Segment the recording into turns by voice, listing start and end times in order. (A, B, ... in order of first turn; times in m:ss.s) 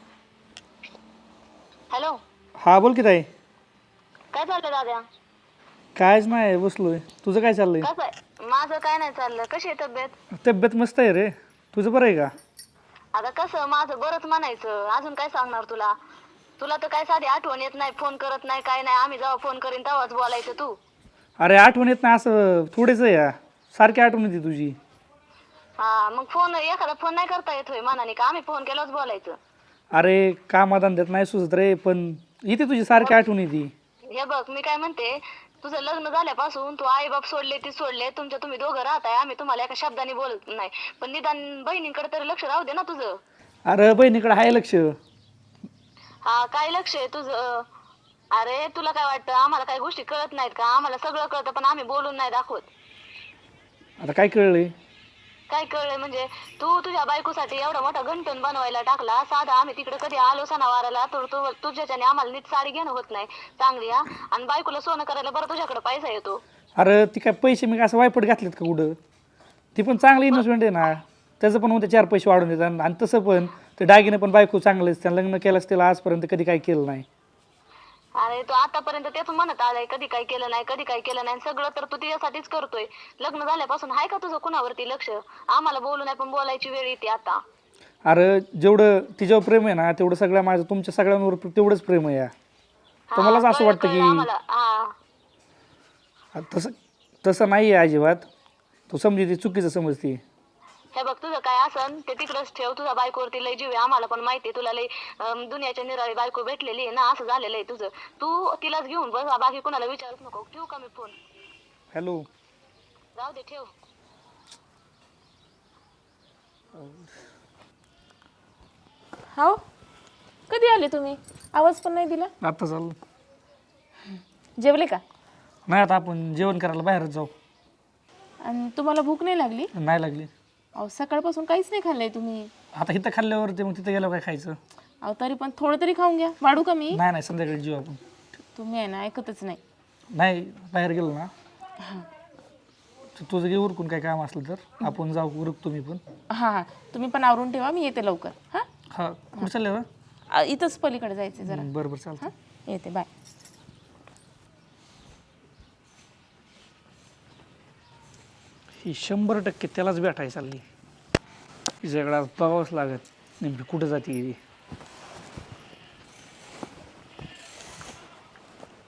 0:01.9-0:02.2 A
0:02.6-0:03.3 B
0:04.3-0:05.0 A
0:06.0-0:07.9 B
0:07.8-0:10.1 A
0:10.3-0:12.3 B
0:13.1-0:15.9 A
0:16.6-0:20.8 A
0:21.4-0:24.8 B
0:25.8-0:29.4 A
0:29.9-0:33.7 B
0:34.1-0:43.2 A
0:43.7-0:44.9 B
0:46.2-0:47.6 A
0:48.3-0:52.6 A
0:54.0-0:54.7 B
0:55.5-1:06.4 A
1:06.8-1:09.0 B
1:09.8-1:17.0 B
1:18.2-1:27.4 A
1:28.0-1:32.3 B
1:33.1-1:34.9 A
1:33.2-1:34.3 B
1:36.3-1:38.3 B
1:38.9-1:40.2 B
1:40.9-1:51.1 A
1:51.9-1:52.3 B
1:53.2-1:53.7 A
1:59.3-1:59.6 C
2:00.5-2:02.3 C
2:02.4-2:03.0 B
2:04.6-2:05.0 C
2:05.7-2:07.3 B
2:08.4-2:09.7 C
2:09.7-2:10.3 B
2:10.8-2:12.5 C
2:12.7-2:14.6 B
2:15.0-2:17.0 C
2:16.9-2:18.0 B
2:18.5-2:19.6 C
2:20.1-2:21.3 B
2:21.8-2:22.1 C
2:23.2-2:26.0 B
2:26.3-2:28.7 C
2:28.9-2:29.8 B
2:30.3-2:33.1 C
2:31.4-2:32.3 B
2:38.8-2:40.6 B
2:41.8-2:44.4 B